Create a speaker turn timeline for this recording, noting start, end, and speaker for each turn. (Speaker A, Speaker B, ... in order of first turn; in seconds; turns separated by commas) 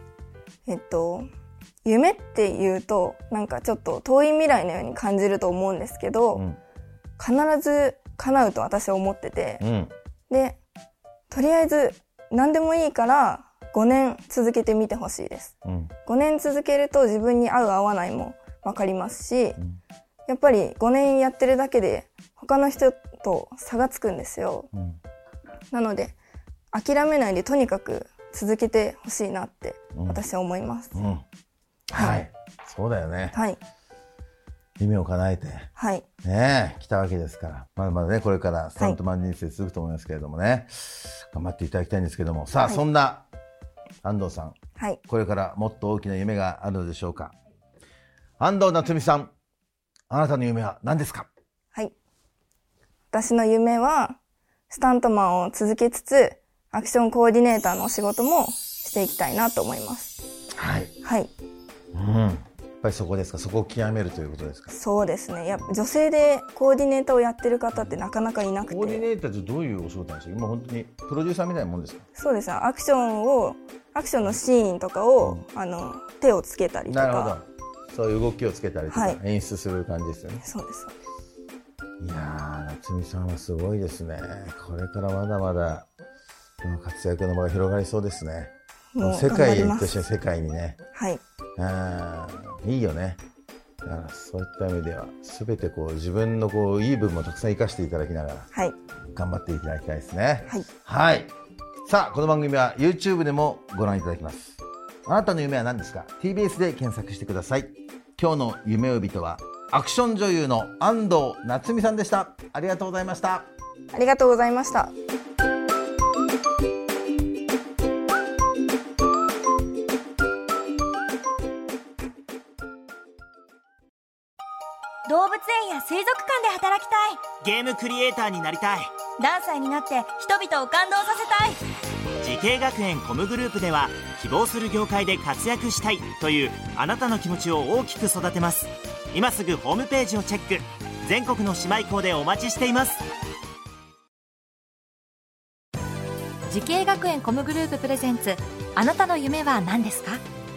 Speaker A: 0.7-1.3, Speaker A: 1.8-6.5, Speaker B: 6.3-6.6, Speaker A: 7.2-9.6, Speaker B: 9.6-9.9, Speaker A: 10.3-10.6, Speaker A: 11.3-15.5, Speaker B: 15.7-15.9, Speaker A: 16.1-19.6, Speaker A: 20.3-24.7, Speaker A: 25.7-26.2, Speaker A: 26.7-31.0, Speaker B: 29.9-30.2, Speaker B: 30.9-31.2, Speaker B: 31.9-33.4, Speaker A: 31.9-32.2, Speaker A: 33.3-33.6, Speaker B: 34.8-35.7, Speaker A: 35.8-36.1, Speaker B: 36.2-43.3, Speaker B: 44.0-44.6, Speaker A: 44.8-45.0, Speaker B: 45.1-47.3, Speaker B: 48.4-49.3, Speaker B: 50.1-51.3, Speaker A: 53.1-54.2, Speaker A: 54.7-60.2, Speaker B: 60.6-60.9, Speaker A: 61.0-61.3, Speaker B: 61.9-64.8, Speaker A: 64.7-69.1, Speaker B: 68.7-72.0, Speaker A: 72.2-77.4, Speaker B: 76.9-80.4, Speaker A: 78.9-79.2, Speaker A: 80.4-81.0, Speaker B: 82.0-85.9, Speaker B: 86.6-90.8, Speaker A: 89.0-90.0, Speaker A: 90.9-91.2, Speaker B: 91.6-93.2, Speaker B: 93.8-98.5, Speaker B: 99.2-101.3, Speaker B: 101.9-113.5, Speaker A: 113.9-114.9, Speaker C: 125.1-127.3, Speaker D: 127.4-128.9, Speaker C: 129.2-131.6, Speaker D: 132.2-143.1, Speaker E: 146.5-150.2